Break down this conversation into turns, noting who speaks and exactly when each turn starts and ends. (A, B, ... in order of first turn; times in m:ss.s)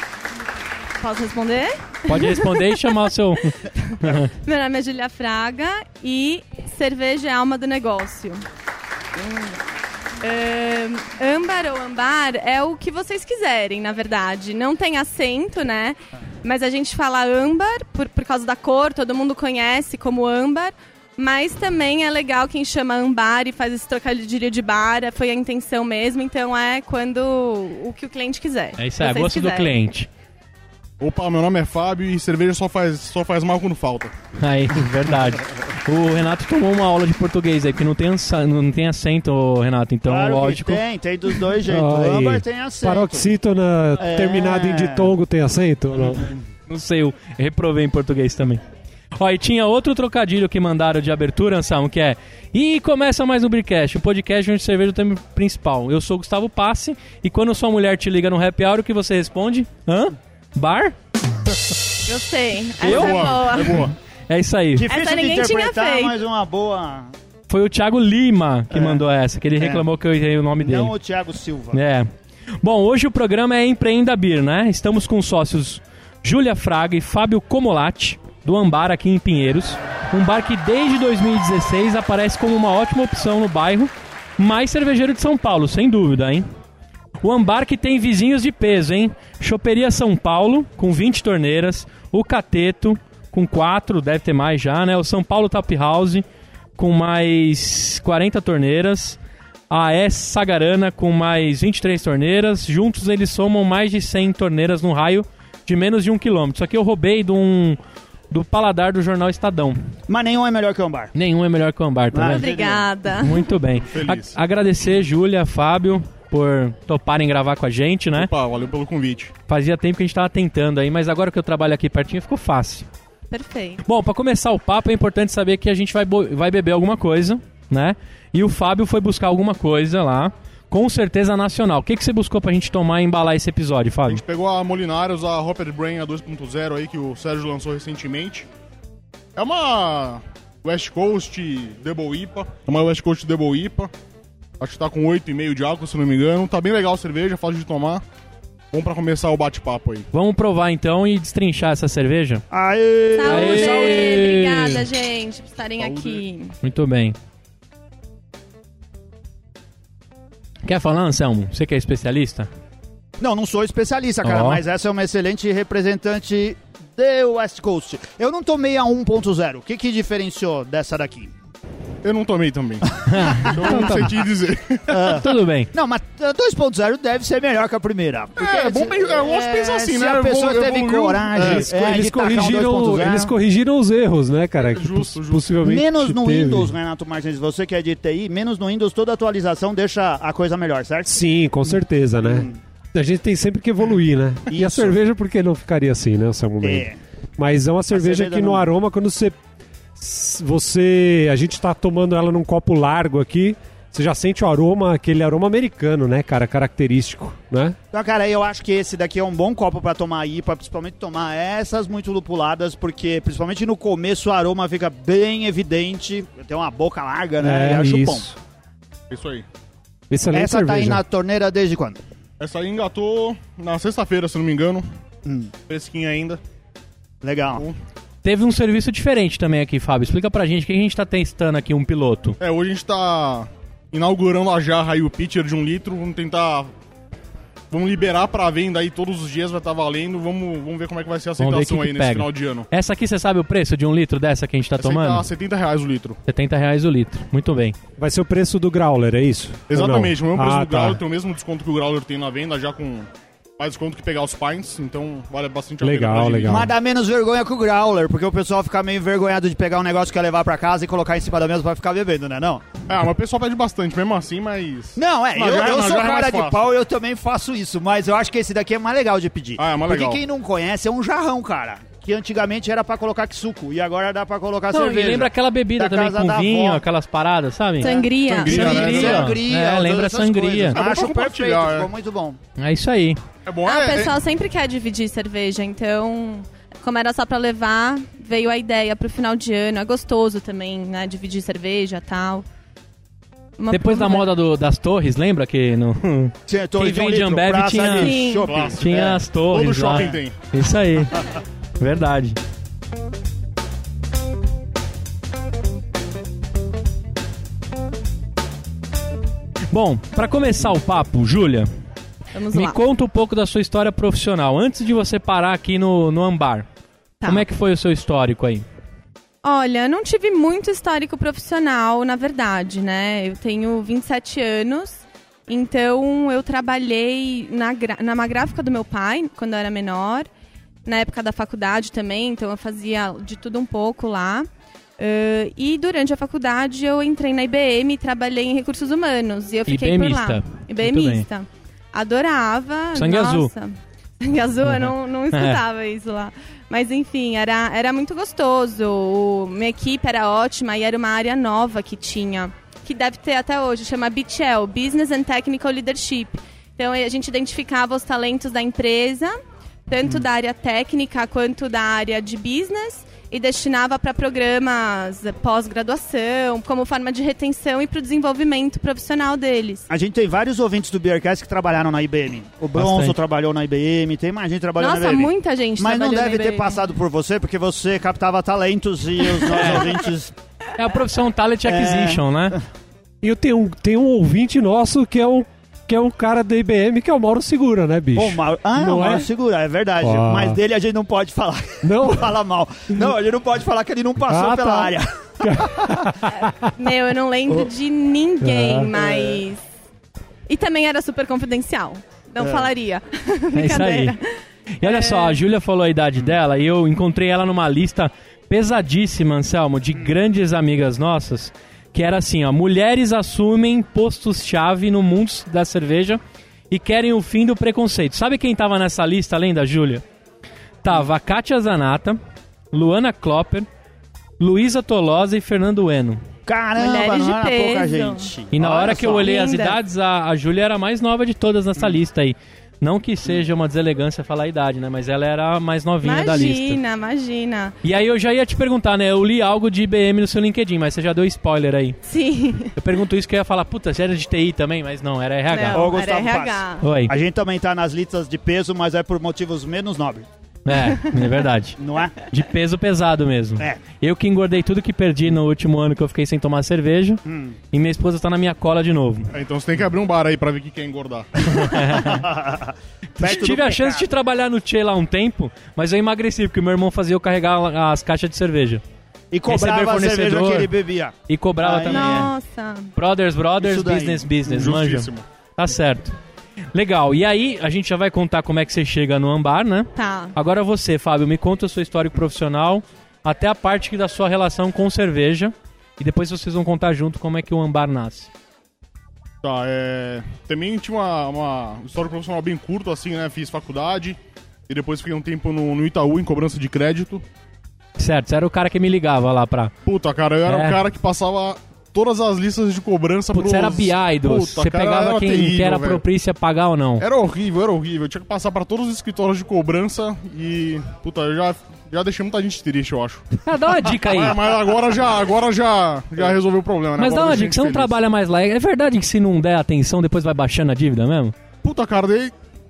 0:01.0-0:02.9 A
0:02.1-0:04.3 B
0:03.6-0:08.4 A
0:09.2-0:09.6 A
0:10.2-0:29.7 A
0:28.8-0:30.1 B
0:31.0-0:34.1 C
0:34.4-0:40.8 B
0:40.1-0:43.3 D
0:41.6-0:46.3 E
0:44.0-0:45.1 D
0:46.0-0:46.4 D
0:46.7-0:48.6 B
0:49.2-1:01.0 B
1:02.1-1:03.9 A
1:02.8-1:04.9 B
1:02.8-1:04.0 C
1:04.8-1:07.1 D
1:04.9-1:06.2 A
1:07.5-1:10.9 B
1:08.7-1:09.0 D
1:09.6-1:09.8 D
1:10.6-1:11.8 D
1:11.7-1:12.1 B
1:12.6-1:26.5 B
1:27.2-1:36.2 B
1:36.8-1:39.2 B
1:39.7-1:47.8 B
1:48.3-1:49.8 B
1:50.1-1:51.1 D
1:51.1-1:52.5 B
1:52.1-1:52.9 D
1:52.2-1:53.5 A
1:53.2-1:58.3 B
1:53.9-1:54.4 C
1:58.1-1:59.3 C
1:59.5-2:02.9 B
2:03.3-2:03.8 A
2:03.8-2:14.2 B
2:14.1-2:18.5 C
2:19.4-2:23.9 C
2:24.6-2:28.0 C
2:28.7-2:30.1 C
2:30.1-2:32.4 B
2:32.5-2:34.4 D
2:33.1-2:36.6 A
2:33.2-2:34.8 B
2:35.8-2:36.2 C
2:36.6-2:37.2 B
2:40.7-2:42.5 B
2:43.2-2:51.3 D
2:44.2-2:44.6 B
2:52.0-2:55.1 C
2:53.1-2:54.1 B
2:54.9-3:03.3 D
2:55.2-2:55.7 B
2:58.4-3:01.9 C
3:01.4-3:06.8 E
3:04.6-3:05.5 C
3:05.6-3:12.6 D
3:11.1-3:19.4 E
3:14.5-3:15.0 D
3:16.6-3:17.0 D
3:17.9-3:18.7 D
3:20.0-3:27.8 E
3:27.9-3:38.3 D
3:37.4-3:38.4 E
3:39.1-3:39.4 C
3:40.1-3:41.0 E
3:40.3-3:42.0 D
3:42.4-3:44.8 C
3:45.2-3:45.5 D
3:45.7-3:46.4 C
3:47.2-3:47.6 D
3:48.2-3:52.4 B
3:52.4-3:56.7 C
3:57.7-4:02.7 C
4:01.4-4:05.3 B
4:04.8-4:06.2 C
4:06.3-4:07.8 B
4:08.0-4:11.0 E
4:09.7-4:16.7 C
4:15.8-4:16.7 E
4:16.5-4:22.7 D
4:22.9-4:26.7 C
4:25.0-4:36.8 D
4:29.6-4:30.2 C
4:34.7-4:37.9 B
4:37.8-4:38.8 A
4:37.8-4:42.4 D
4:38.3-4:39.4 C
4:38.5-4:40.8 B
4:40.7-4:41.9 C
4:42.6-4:43.2 B
4:43.5-4:44.2 C
4:43.7-4:52.4 A
4:53.6-4:54.3 A
4:53.7-5:01.2 B
4:56.5-4:59.2 D
4:57.9-4:58.5 A
4:58.5-5:00.4 C
5:01.8-5:02.4 B
5:09.7-5:11.7 B
5:12.3-5:12.8 A
5:12.5-5:16.7 B
5:17.2-5:18.6 B
5:19.4-5:30.3 A
5:30.9-5:59.4 A
5:39.7-5:41.3 B
5:42.9-5:43.5 B
5:44.7-5:45.6 B
5:59.9-6:09.9 A
6:09.9-6:20.3 D
6:12.7-6:13.2 B
6:14.8-6:16.8 A
6:19.4-6:19.9 A
6:19.5-6:19.9 B
6:20.8-6:22.6 B
6:21.6-6:22.6 D
6:23.2-6:29.3 E
6:28.2-6:36.1 D
6:30.0-6:30.6 E
6:31.8-6:32.4 E
6:34.2-6:36.7 E
6:36.4-6:39.6 A
6:38.4-6:38.9 E
6:38.9-6:39.4 D
6:40.5-6:44.3 A
6:42.4-6:42.7 D
6:43.5-6:44.2 B
6:44.8-7:00.0 B
6:44.8-6:45.4 A
7:00.8-7:02.2 B
7:02.7-7:03.7 B
7:04.4-7:06.2 B
7:06.5-7:09.3 D
7:06.8-7:08.3 A
7:08.5-7:16.8 B
7:09.0-7:09.8 A
7:16.0-7:17.8 A
7:17.8-7:22.0 B
7:22.1-7:22.8 A
7:22.8-7:25.9 B
7:25.5-7:26.8 A
7:25.7-7:30.3 D
7:26.8-7:27.1 B
7:30.6-7:39.4 B
7:31.8-7:32.2 D
7:37.3-7:37.6 D
7:39.3-7:41.8 C
7:41.5-7:42.3 B
7:42.0-7:44.1 D
7:43.2-7:48.8 B
7:49.3-7:52.3 D
7:49.5-7:50.7 B
7:51.3-7:52.3 B
7:51.9-7:52.9 A
7:53.0-7:56.2 B
7:53.6-7:54.4 D
7:54.5-7:55.2 C
7:56.7-8:08.3 B
8:00.0-8:00.4 A
8:09.4-8:17.2 C
8:18.0-8:19.7 B
8:19.9-8:26.0 C
8:20.5-8:20.8 B
8:23.3-8:27.1 B
8:27.0-8:33.4 C
8:33.4-8:34.4 B
8:33.9-8:38.0 C
8:37.0-8:41.4 B
8:41.6-8:42.3 C